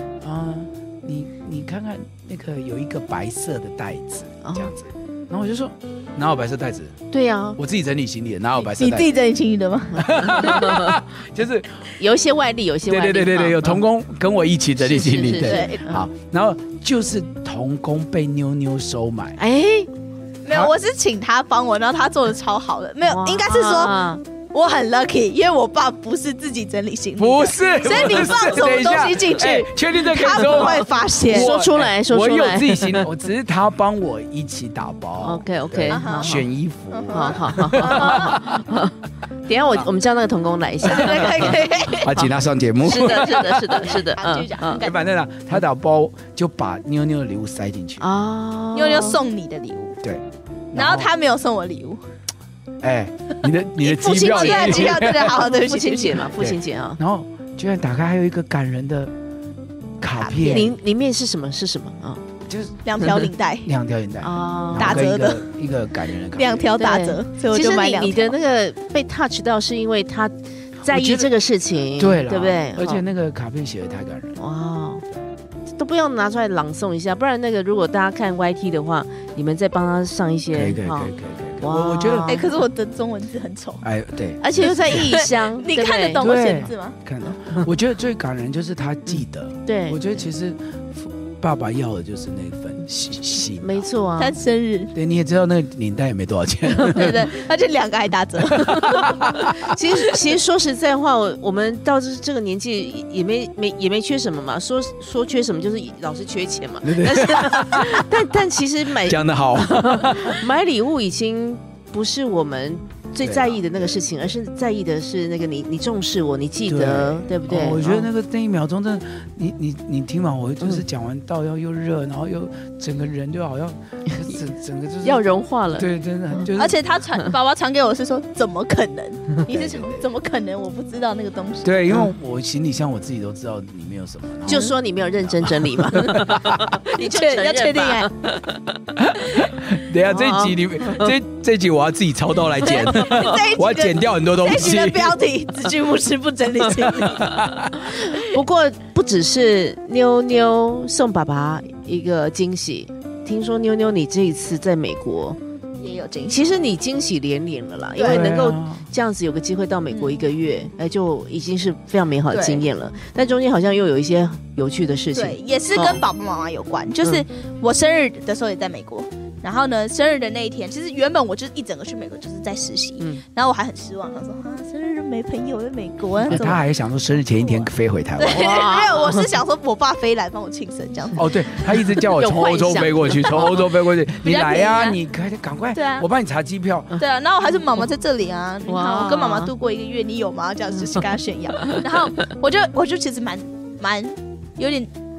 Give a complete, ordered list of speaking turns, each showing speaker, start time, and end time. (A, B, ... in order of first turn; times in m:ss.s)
0:00.2-0:07.0 A
0:04.4-0:04.7 B
0:07.1-0:07.6 B
0:07.6-0:09.1 A
0:08.6-0:10.7 C
0:10.0-0:11.8 A
0:10.0-0:11.0 B
0:12.0-0:13.8 B
0:12.8-0:19.4 A
0:14.8-0:16.0 B
0:15.4-0:15.9 C
0:19.4-0:19.9 B
0:20.4-0:31.5 C
0:23.1-0:24.2 B
0:27.2-0:38.6 A
0:31.3-0:33.0 B
0:35.2-0:36.4 B
0:35.9-0:38.4 C
0:37.1-0:39.0 B
0:39.5-0:44.8 B
0:40.8-0:42.2 C
0:41.0-0:43.8 A
0:43.8-0:45.0 C
0:44.8-0:48.1 A
0:48.0-0:49.2 B
0:48.7-0:50.0 C
0:50.0-0:51.1 A
0:50.7-0:52.0 C
0:52.8-0:55.4 A
0:53.8-0:56.3 C
0:54.0-0:57.0 B
0:56.4-0:59.1 A
1:00.0-1:00.7 A
1:00.1-1:00.7 C
1:00.5-1:02.2 B
1:02.5-1:06.7 A
1:02.8-1:03.7 C
1:04.2-1:05.1 B
1:04.8-1:05.4 C
1:06.4-1:08.4 C
1:06.8-1:13.0 B
1:10.9-1:11.3 A
1:11.9-1:14.4 A
1:14.4-1:15.0 B
1:15.8-1:22.6 B
1:20.5-1:22.3 A
1:22.3-1:23.8 C
1:23.8-1:25.1 A
1:24.4-1:26.3 B
1:24.7-1:27.0 C
1:26.2-1:33.9 A
1:29.7-1:30.2 B
1:33.6-1:34.4 B
1:34.2-1:34.9 C
1:35.0-1:37.3 A
1:36.8-1:39.2 C
1:38.6-1:39.7 A
1:38.8-1:58.1 B
1:46.8-1:48.2 A
1:49.0-1:50.4 A
1:53.2-1:54.3 A
1:56.6-2:06.8 A
2:05.0-2:05.9 B
2:06.6-2:11.9 C
2:09.5-2:10.1 A
2:11.6-2:16.8 A
2:14.5-2:18.7 B
2:16.8-2:18.1 C
2:19.0-2:25.2 A
2:20.0-2:21.1 B
2:22.6-2:27.6 C
2:26.9-2:27.7 A
2:27.8-2:35.4 B
2:35.8-2:36.5 C
2:36.3-2:46.0 B
2:38.0-2:38.3 C
2:38.0-2:38.9 A
2:39.9-2:40.2 C
2:42.3-2:42.6 C
2:45.1-2:56.6 C
2:56.3-2:58.5 A
2:56.3-2:56.6 B
2:57.4-3:01.4 C
2:58.3-2:59.3 B
3:01.2-3:07.0 A
3:02.0-3:03.6 B
3:04.2-3:05.0 C
3:05.7-3:06.1 C
3:07.0-3:14.9 C
3:08.7-3:09.5 B
3:11.6-3:11.8 B